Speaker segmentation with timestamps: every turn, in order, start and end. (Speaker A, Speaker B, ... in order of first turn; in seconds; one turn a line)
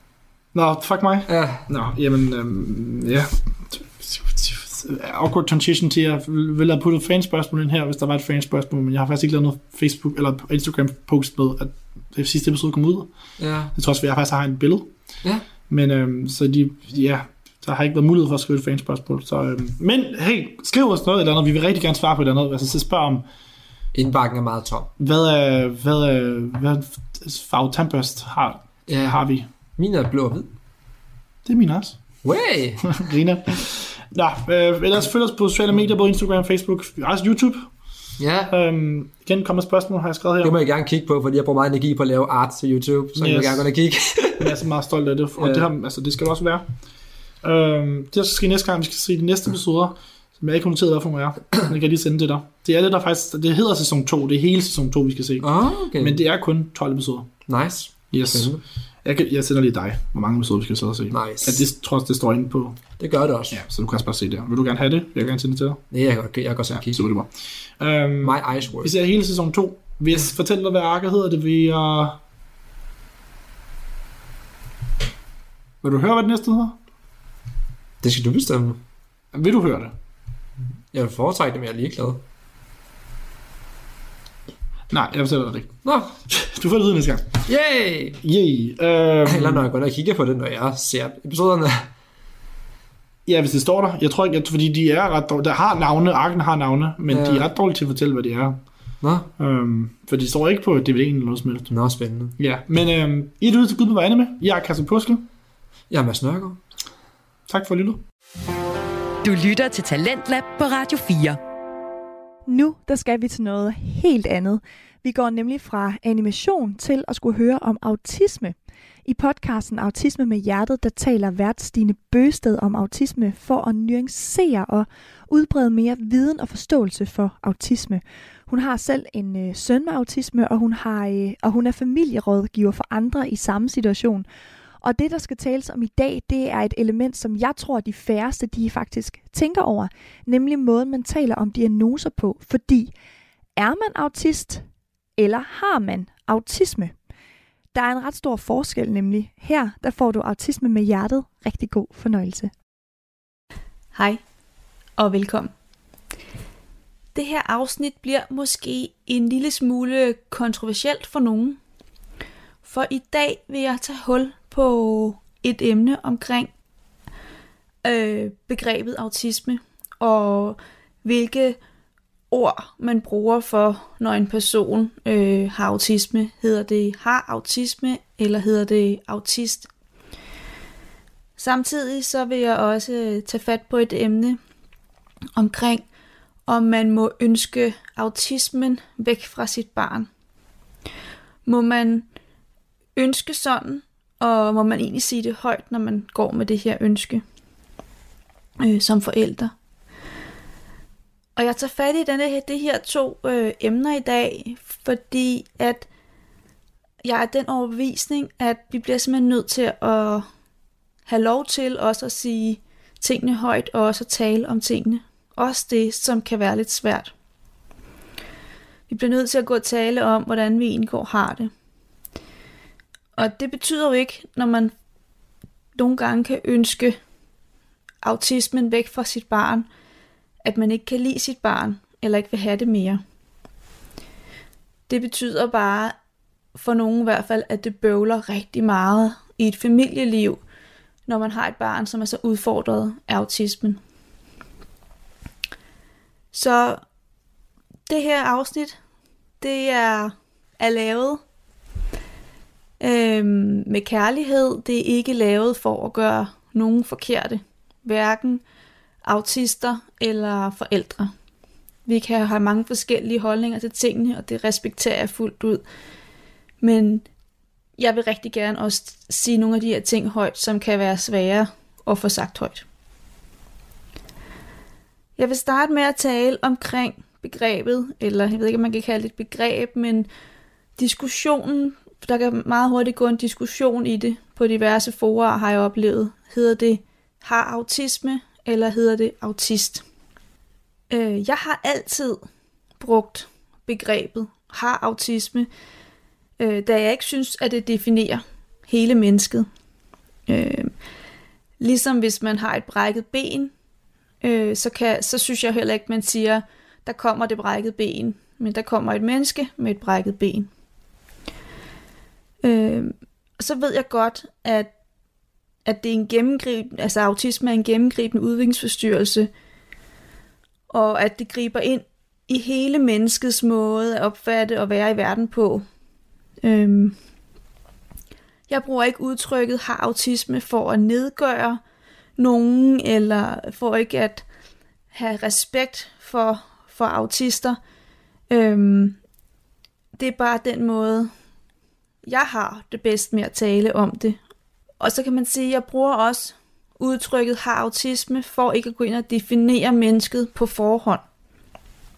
Speaker A: 0.5-13.1
Speaker B: 1.3-1.7
Speaker B: 13.4-13.7
Speaker A: 13.7-14.9
Speaker A: 15.7-23.2
Speaker B: 23.9-24.9
Speaker A: 25.0-29.5
Speaker B: 28.9-29.2
Speaker B: 29.8-30.5
Speaker A: 31.4-32.0
Speaker B: 32.2-32.9
Speaker A: 32.8-37.7
Speaker B: 38.2-38.5
Speaker A: 38.5-40.6
Speaker B: 40.4-44.5
Speaker A: 43.2-43.7
Speaker A: 44.4-46.6
Speaker B: 45.4-45.7
Speaker A: 47.4-57.3
Speaker B: 55.4-56.2
Speaker B: 57.5-58.6
Speaker A: 58.1-58.5
Speaker A: 59.0-62.8
Speaker B: 61.1-61.7
Speaker B: 63.0-63.6
Speaker A: 63.5-65.8
Speaker B: 65.9-67.1
Speaker A: 66.7-72.2
Speaker B: 68.2-68.9
Speaker A: 75.8-76.8
Speaker B: 78.0-78.8
Speaker A: 79.3-79.9
Speaker B: 80.9-82.2
Speaker A: 84.9-85.8
Speaker B: 85.8-86.2
Speaker A: 86.3-87.3
Speaker B: 87.5-88.2
Speaker A: 88.2-89.7
Speaker B: 89.2-91.9
Speaker A: 93.3-98.6
Speaker B: 97.1-97.5
Speaker B: 99.0-99.3
Speaker A: 99.4-101.7
Speaker B: 101.7-102.3
Speaker A: 102.4-105.3
Speaker B: 105.9-106.6
Speaker A: 107.5-108.0
Speaker C: 109.2-111.4
Speaker D: 112.5-118.5
Speaker D: 119.1-134.2
Speaker D: 134.8-142.9
Speaker D: 143.6-144.6
Speaker D: 145.2-146.9
Speaker D: 147.7-152.5
Speaker E: 153.9-154.2
Speaker E: 155.0-155.5
Speaker E: 157.2-161.6
Speaker E: 162.6-166.5
Speaker E: 167.8-171.6
Speaker E: 172.3-179.7
Speaker E: 181.4-184.4
Speaker E: 185.4-185.8
Speaker E: 186.5-190.1
Speaker E: 191.5-192.1
Speaker E: 193.0-197.2
Speaker E: 198.6-199.5
Speaker E: 201.4-205.9
Speaker E: 207.0-210.3
Speaker E: 211.1-217.1
Speaker E: 218.9-221.5
Speaker E: 223.2-224.7
Speaker E: 225.8-227.0
Speaker E: 228.0-229.7
Speaker E: 230.4-233.0
Speaker E: 234.9-236.0
Speaker E: 236.6-240.4
Speaker E: 241.1-243.8
Speaker E: 246.3-246.8
Speaker E: 247.9-248.8
Speaker E: 249.4-251.2
Speaker E: 252.8-258.4
Speaker E: 259.1-261.1
Speaker E: 261.9-265.6
Speaker E: 266.6-267.1
Speaker E: 267.8-272.6
Speaker E: 275.2-280.1
Speaker E: 280.8-289.8
Speaker E: 290.9-292.2
Speaker E: 292.8-295.5
Speaker E: 296.4-299.5
Speaker E: 300.3-300.7
Speaker E: 301.6-303.5
Speaker E: 304.2-310.5
Speaker E: 312.4-314.7
Speaker E: 315.6-319.3
Speaker E: 320.7-325.6
Speaker E: 326.4-327.0
Speaker E: 328.5-331.6
Speaker E: 332.2-334.2
Speaker E: 334.9-337.6
Speaker E: 338.3-339.0
Speaker E: 340.0-341.1
Speaker E: 342.1-344.2
Speaker E: 344.8-351.0